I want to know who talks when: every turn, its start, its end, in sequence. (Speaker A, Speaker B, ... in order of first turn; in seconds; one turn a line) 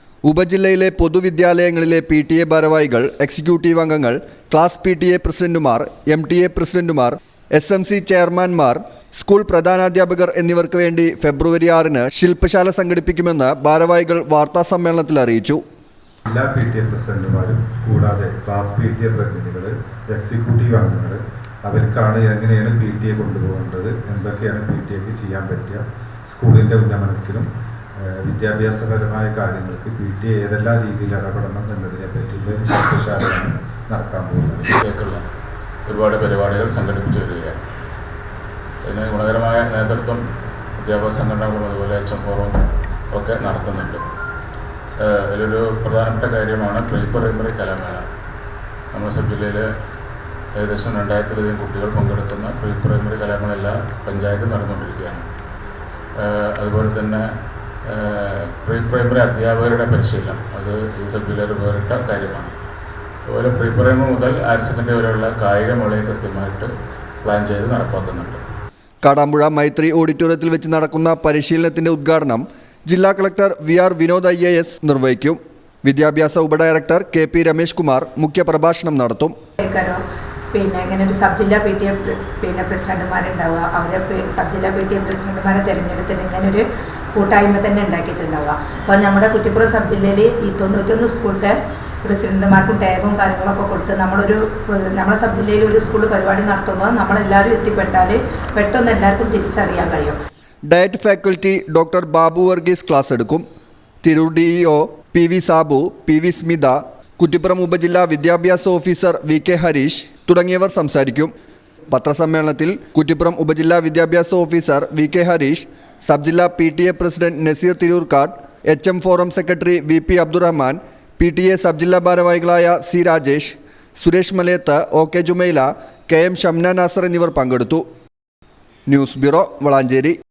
Speaker A: 0.2-15.6
Speaker B: 16.2-34.7
Speaker C: 34.8-35.2
Speaker C: 35.9-37.6
Speaker C: 38.8-40.2
Speaker C: 40.8-44.0
Speaker C: 45.0-48.0
Speaker C: 48.9-49.7
Speaker C: 50.5-55.2
Speaker C: 56.2-57.3
Speaker C: 57.9-62.5
Speaker C: 63.3-66.7
Speaker C: 67.2-68.4
Speaker A: 69.0-79.3
Speaker D: 79.6-80.0
Speaker D: 80.5-100.2
Speaker A: 100.7-103.4
Speaker A: 104.0-111.3
Speaker A: 111.9-127.8
Speaker A: 128.9-130.2